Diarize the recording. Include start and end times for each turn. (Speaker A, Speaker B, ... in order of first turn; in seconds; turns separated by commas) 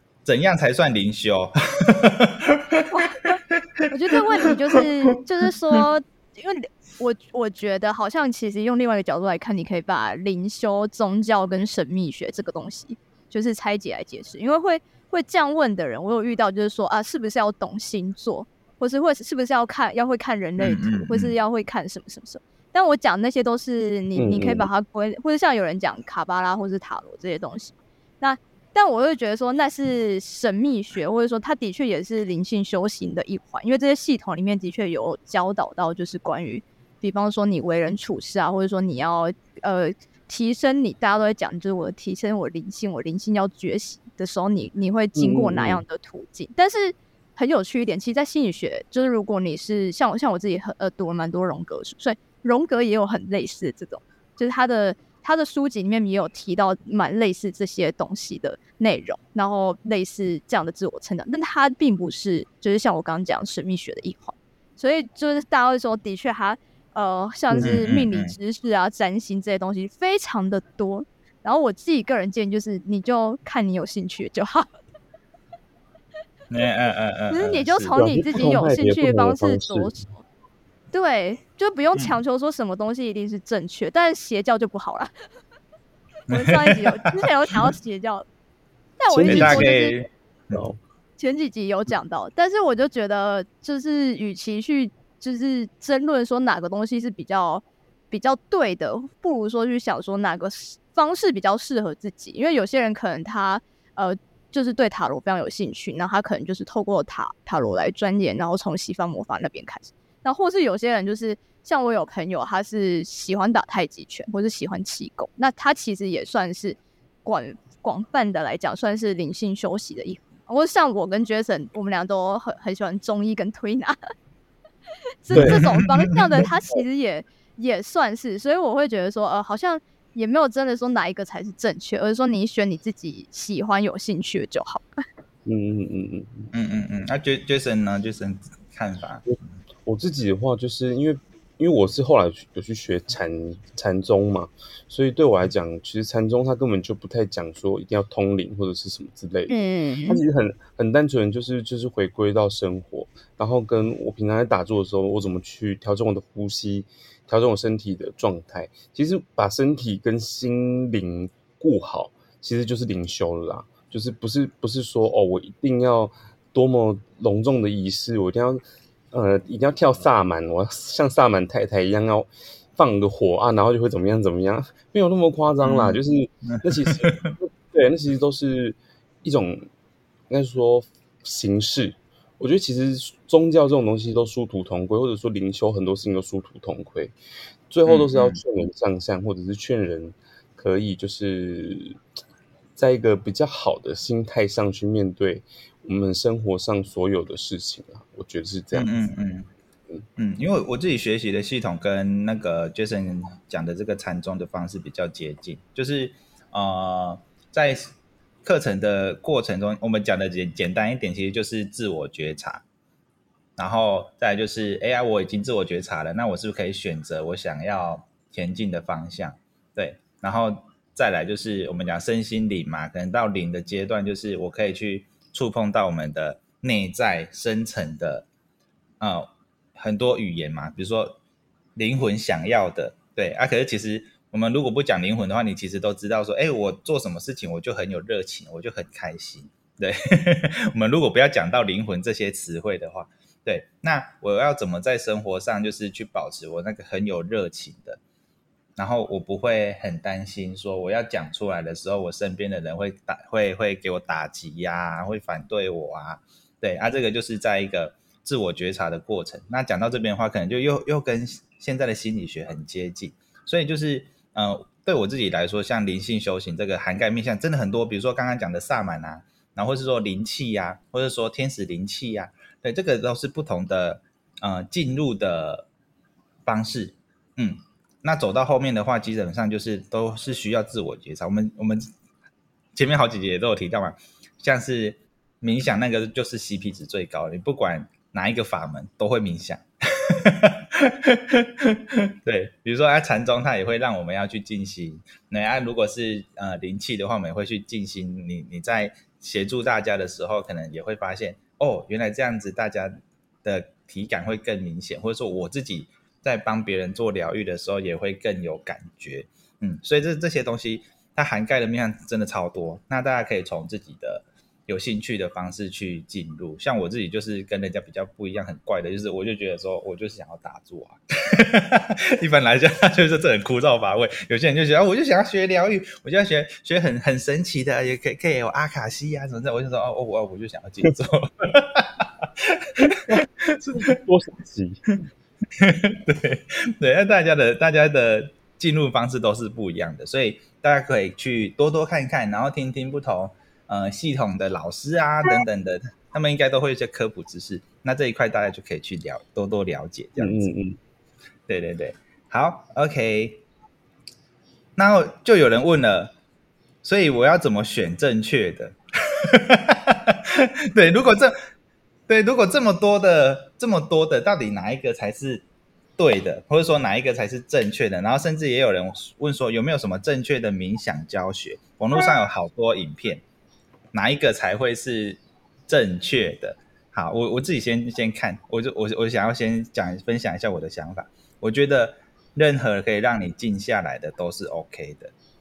Speaker A: 0.2-4.8, Speaker B: 3.9-74.7, Speaker A: 20.6-21.3, Speaker C: 24.1-24.7, Speaker C: 45.1-45.8, Speaker C: 67.5-67.9, Speaker A: 67.6-68.3, Speaker A: 76.5-78.0, Speaker B: 77.3-80.2, Speaker C: 78.0-79.9, Speaker B: 80.9-85.1, Speaker A: 81.9-82.2, Speaker A: 86.3-87.2, Speaker B: 86.3-88.2, Speaker B: 89.0-89.9, Speaker C: 89.1-89.8, Speaker A: 89.3-90.7, Speaker C: 90.5-90.8, Speaker B: 91.2-124.0, Speaker B: 125.2-134.9, Speaker C: 125.3-125.7, Speaker A: 125.3-126.2, Speaker C: 126.4-126.8, Speaker C: 135.4-136.5, Speaker A: 136.5-139.2, Speaker C: 139.2-179.6, Speaker B: 149.5-150.2, Speaker A: 175.6-177.2, Speaker C: 180.3-187.1, Speaker C: 187.7-192.0, Speaker A: 187.8-188.4, Speaker C: 192.8-198.9, Speaker A: 198.7-199.5, Speaker A: 200.2-207.9, Speaker A: 208.4-212.6, Speaker A: 213.6-228.2, Speaker A: 229.0-231.2, Speaker A: 231.8-248.0, Speaker A: 248.8-275.7, Speaker A: 276.4-281.9, Speaker A: 282.7-289.6, Speaker A: 290.2-333.9, Speaker C: 332.8-333.2, Speaker C: 333.7-334.8, Speaker A: 335.6-350.5, Speaker C: 350.2-350.8, Speaker A: 351.5-353.4, Speaker A: 354.8-356.1, Speaker A: 356.8-358.8, Speaker A: 359.3-361.4, Speaker A: 362.1-365.4, Speaker A: 366.0-373.2, Speaker A: 373.9-385.1